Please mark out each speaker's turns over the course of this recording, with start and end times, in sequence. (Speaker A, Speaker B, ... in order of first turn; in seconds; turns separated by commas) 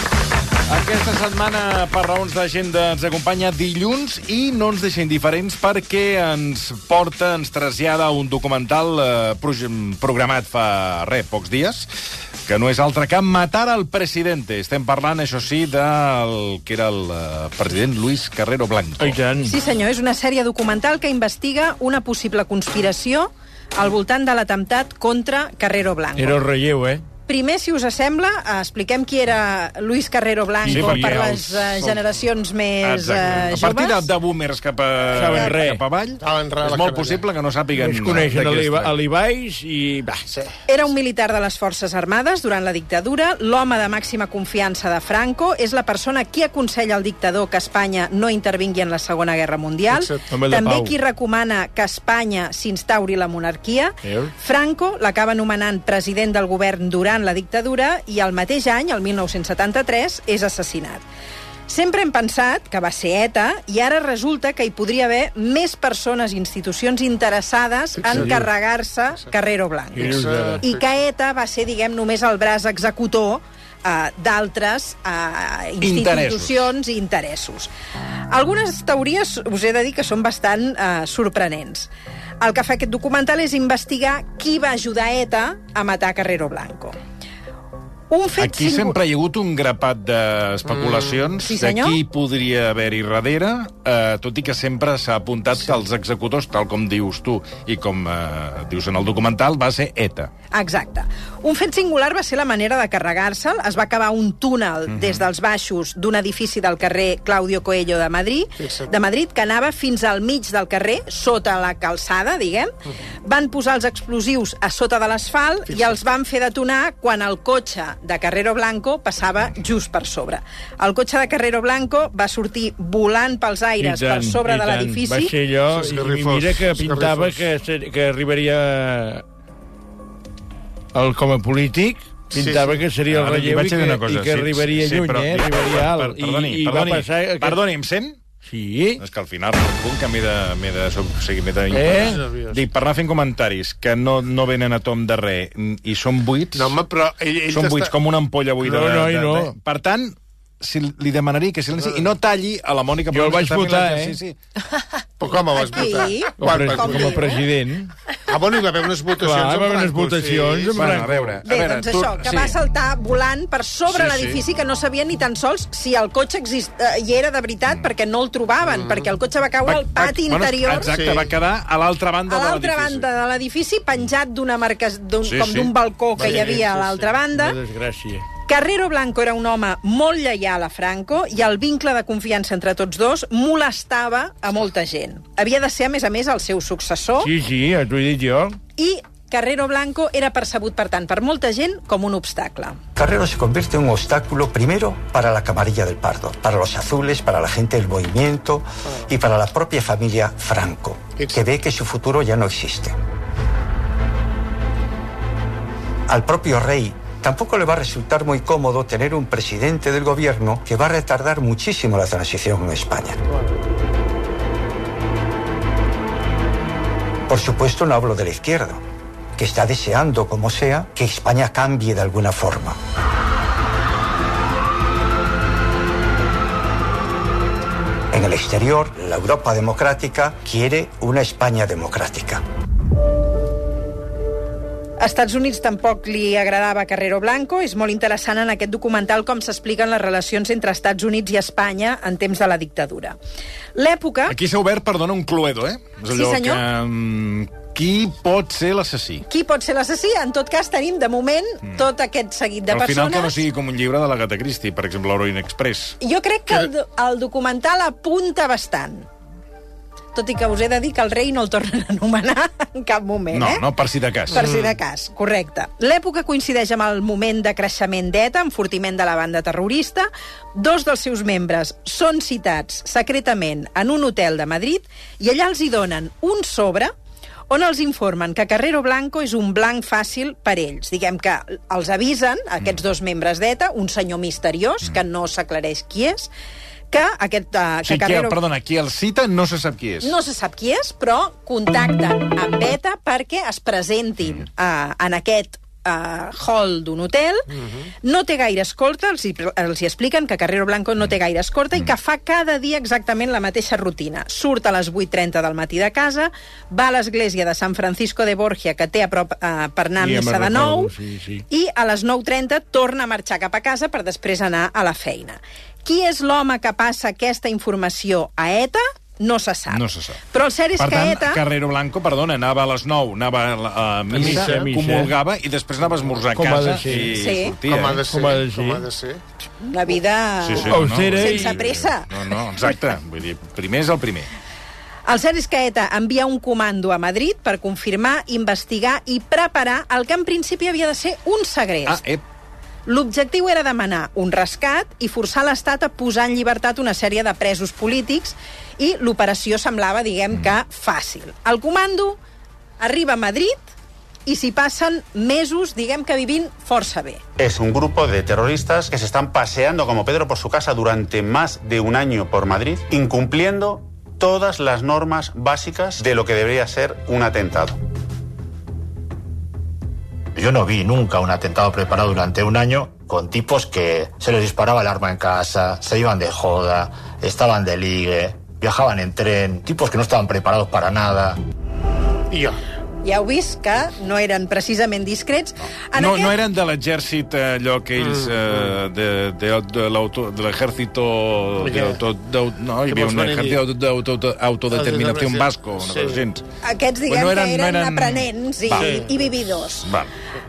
Speaker A: 0.7-11.9, Speaker A: 12.5-19.2, Speaker B: 19.0-19.5, Speaker C: 19.4-26.4, Speaker B: 26.2-27.0, Speaker C: 27.3-34.1, Speaker A: 30.6-32.1, Speaker B: 30.6-31.2, Speaker A: 32.8-38.9, Speaker B: 35.1-35.8, Speaker D: 36.2-37.2, Speaker B: 37.8-40.3, Speaker C: 40.7-61.0, Speaker D: 49.9-50.2, Speaker B: 50.3-50.9, Speaker B: 54.0-54.3, Speaker C: 61.7-77.7, Speaker D: 68.0-68.4, Speaker B: 68.1-68.4, Speaker D: 70.0-70.8, Speaker B: 70.0-70.6, Speaker A: 75.8-76.7, Speaker C: 78.3-81.9, Speaker C: 82.4-87.0, Speaker C: 88.1-89.0, Speaker A: 88.4-100.3, Speaker D: 90.7-91.0, Speaker C: 91.4-92.0, Speaker C: 100.5-112.7, Speaker A: 104.9-105.2, Speaker D: 108.6-108.9, Speaker C: 113.2-125.3, Speaker D: 115.7-116.0, Speaker B: 123.8-129.2, Speaker D: 125.7-127.5, Speaker B: 130.9-137.6, Speaker D: 132.3-132.8, Speaker A: 133.1-138.2, Speaker B: 138.4-139.0, Speaker A: 139.0-146.8, Speaker B: 141.7-142.2, Speaker D: 141.8-142.6, Speaker D: 146.5-147.9, Speaker A: 147.5-154.4, Speaker B: 148.6-149.5, Speaker D: 151.8-152.1, Speaker B: 153.1-154.2, Speaker D: 155.2-157.4, Speaker C: 155.7-157.4, Speaker B: 156.4-157.9, Speaker D: 158.3-160.9, Speaker B: 159.2-161.3, Speaker A: 160.7-162.6, Speaker C: 161.4-170.9, Speaker A: 163.9-164.4, Speaker D: 168.6-169.1, Speaker A: 169.6-173.1, Speaker D: 170.9-171.3, Speaker C: 172.3-177.6, Speaker A: 175.2-175.7, Speaker B: 176.2-178.2, Speaker D: 176.2-176.7, Speaker C: 178.4-187.3, Speaker B: 187.2-188.6, Speaker C: 188.8-192.8, Speaker E: 192.9-203.0, Speaker D: 201.2-201.5, Speaker E: 206.1-213.2, Speaker E: 217.2-218.8, Speaker E: 219.3-222.8, Speaker E: 228.1-232.4, Speaker C: 235.0-243.2, Speaker C: 243.7-244.3, Speaker A: 244.3-249.2, Speaker C: 246.1-246.6, Speaker C: 249.3-253.4, Speaker A: 252.7-256.0, Speaker C: 256.0-259.1, Speaker C: 260.1-263.6, Speaker A: 263.3-264.5, Speaker D: 264.3-264.8, Speaker C: 264.3-276.9, Speaker C: 277.5-286.3, Speaker C: 286.9-288.4, Speaker A: 287.9-290.1, Speaker C: 290.0-297.5, Speaker D: 297.5-297.9, Speaker C: 298.0-310.9, Speaker B: 310.0-311.4, Speaker C: 311.5-321.4, Speaker A: 319.7-320.2, Speaker A: 320.8-328.1, Speaker B: 324.1-325.1, Speaker D: 324.2-324.6, Speaker B: 326.3-327.1, Speaker C: 327.1-327.5, Speaker D: 327.6-329.2, Speaker B: 328.1-328.8, Speaker C: 329.7-332.1, Speaker A: 330.4-334.3, Speaker B: 330.7-331.6, Speaker C: 335.1-342.0, Speaker A: 341.9-342.2, Speaker C: 342.9-352.2, Speaker C: 352.8-353.6, Speaker C: 354.2-357.2, Speaker F: 357.4-367.8, Speaker G: 370.3-381.4, Speaker D: 382.3-382.6, Speaker C: 383.0-386.3, Speaker A: 385.9-396.4, Speaker D: 388.0-388.7, Speaker D: 391.6-392.0, Speaker D: 392.9-393.6, Speaker D: 394.7-396.2, Speaker C: 396.6-399.9, Speaker A: 397.1-399.0, Speaker D: 398.8-399.2, Speaker A: 399.8-400.1